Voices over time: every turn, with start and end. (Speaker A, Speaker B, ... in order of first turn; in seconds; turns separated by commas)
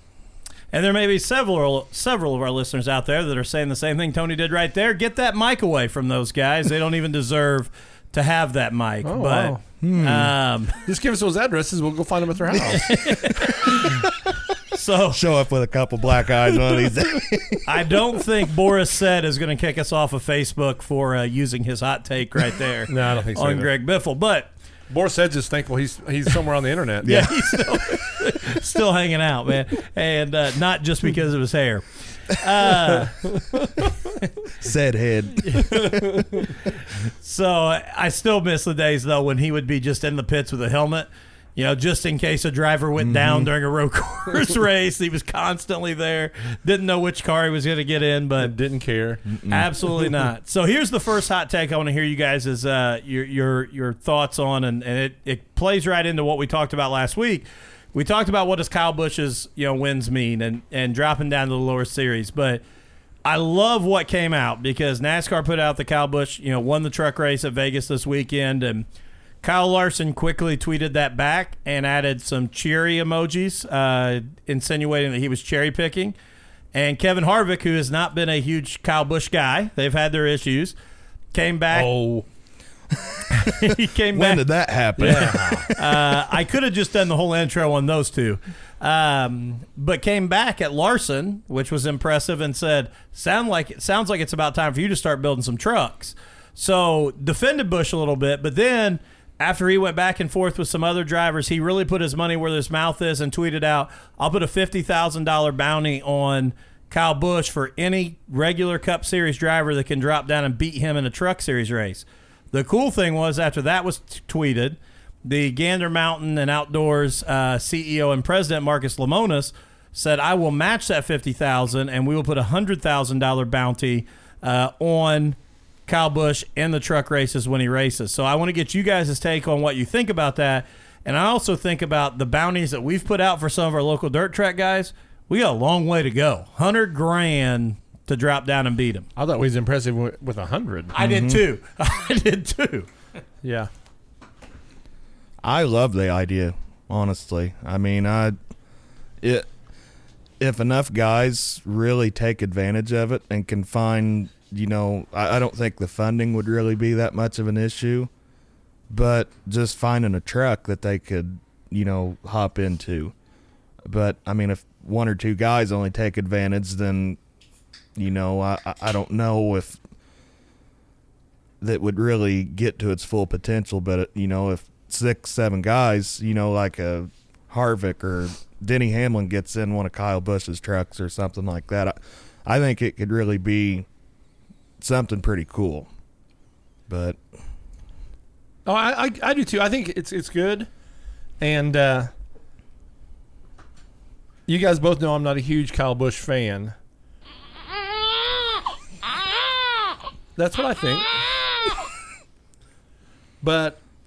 Speaker A: 0.7-10.7, Speaker B: 9.0-9.6, Speaker C: 9.8-10.3, Speaker B: 10.8-13.0, Speaker A: 12.7-13.8, Speaker A: 14.7-15.2, Speaker C: 15.1-17.8, Speaker A: 17.6-24.5, Speaker B: 22.9-23.7, Speaker B: 24.9-27.1, Speaker C: 27.0-27.4, Speaker A: 27.0-33.4, Speaker C: 34.6-36.1, Speaker A: 35.4-35.9, Speaker A: 37.2-48.5, Speaker C: 43.0-43.5, Speaker B: 48.4-49.3, Speaker C: 49.3-49.7, Speaker A: 49.5-62.6, Speaker A: 63.2-68.8, Speaker A: 69.4-76.1, Speaker A: 76.7-80.7, Speaker A: 81.3-81.9, Speaker B: 81.7-82.2, Speaker A: 83.3-84.4, Speaker C: 84.1-86.2, Speaker B: 85.0-85.7, Speaker A: 85.0-139.1, Speaker B: 139.2-140.9, Speaker A: 140.9-142.9, Speaker C: 141.0-141.4, Speaker B: 143.4-143.7, Speaker C: 145.4-148.4, Speaker C: 149.2-149.5, Speaker C: 150.4-158.1, Speaker C: 158.9-163.1, Speaker C: 163.8-167.2, Speaker C: 167.9-169.8, Speaker C: 171.6-183.8, Speaker C: 184.8-185.9, Speaker C: 186.9-187.2, Speaker B: 188.7-190.7, Speaker B: 191.4-192.1, Speaker B: 194.5-196.7, Speaker B: 200.3-201.2, Speaker B: 203.4-203.8